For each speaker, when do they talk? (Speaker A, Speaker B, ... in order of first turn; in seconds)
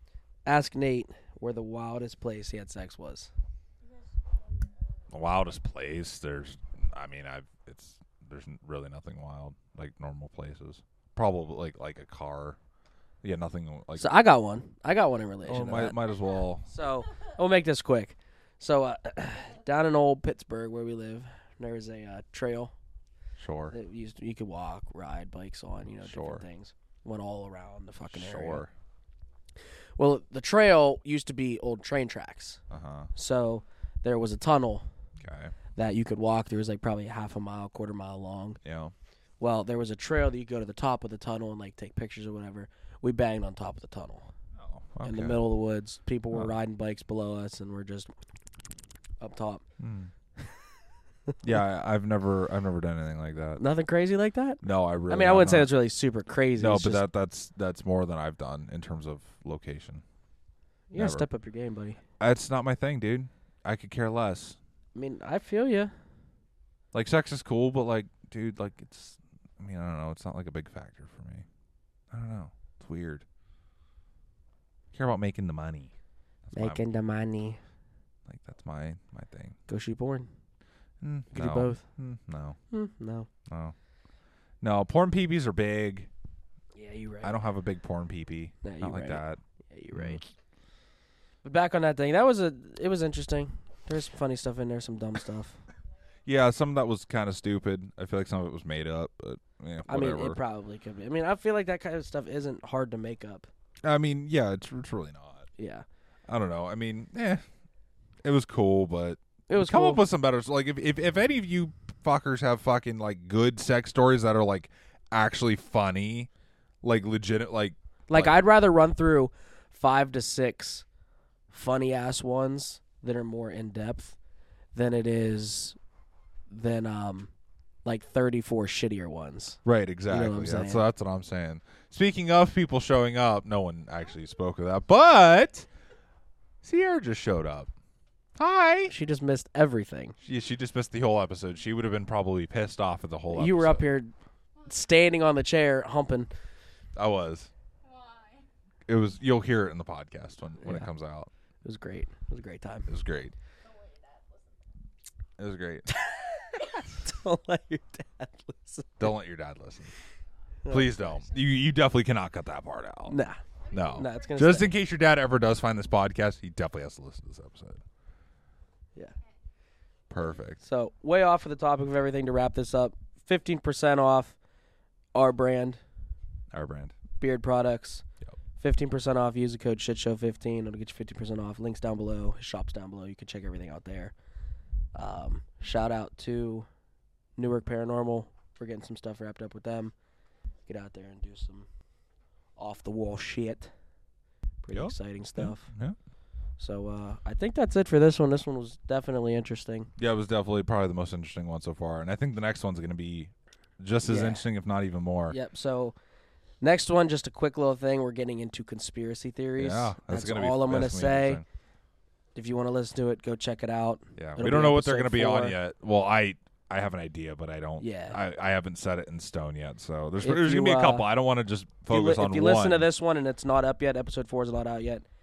Speaker A: 0.5-3.3, 14.0-16.0, 16.7-22.7, 23.7-28.6, 30.0-32.6, 33.1-34.9, 35.8-38.6, 39.4-44.3, 45.0-48.1, 49.2-49.6, 53.6-57.0, 60.9-62.0, 64.9-65.9, 76.5-77.6, 79.7-80.3, 81.3-81.8, 82.7-83.3, 86.7-87.3, 88.6-90.2, 91.4-95.6, 99.9-103.5, 105.6-105.8, 109.5-110.0, 118.1-120.8, 121.5-124.2, 124.7-125.8, 126.5-127.3, 127.8-130.8, 138.9-140.1, 143.3-144.1, 144.7-146.3, 150.6-150.9, 151.6-152.9, 155.9-159.1, 160.6-161.2, 163.1-163.4, 163.9-164.7, 170.6-174.4, 175.1-175.8, 177.2-178.0, 178.6-184.1, 184.9-186.7, 187.4-189.9, 190.7-191.7, 192.6-193.7, 194.6-195.7, 196.6-199.9, 204.1-204.4, 205.3-205.9, 206.6-211.4, 212.3-215.6, 217.8-218.2, 220.2-221.1, 221.9-225.0
Speaker B: 4.2-4.7, 147.8-148.4, 153.6-154.6, 163.6-164.8
Speaker C: 5.1-12.6, 13.2-14.1, 15.5-16.7, 23.4-23.7, 26.0-26.4, 28.0-28.7, 32.7-33.1, 35.2-35.5, 38.6-38.9, 44.5-45.4, 49.8-50.1, 51.4-53.6, 54.6-55.7, 56.6-60.0, 60.9-61.3, 62.2-64.6, 66.9-71.5, 72.1-73.2, 74.9-75.9, 76.5-76.8, 78.2-79.5, 81.0-82.6, 83.5-83.7, 84.6-86.1, 87.2-89.4, 89.9-90.2, 96.2-100.4, 103.8-105.5, 106.3-107.4, 108.2-116.3, 116.8-118.3, 129.6-135.7, 136.6-137.7, 138.4-138.9, 140.2-143.8, 146.9-147.5, 148.9-151.3, 152.9-153.3, 155.4-155.9, 159.0-159.9, 160.7-163.2, 163.7-167.8, 170.1-170.6, 176.5-176.9, 194.7-196.0, 200.0-205.4, 209.6-211.4, 214.2-222.9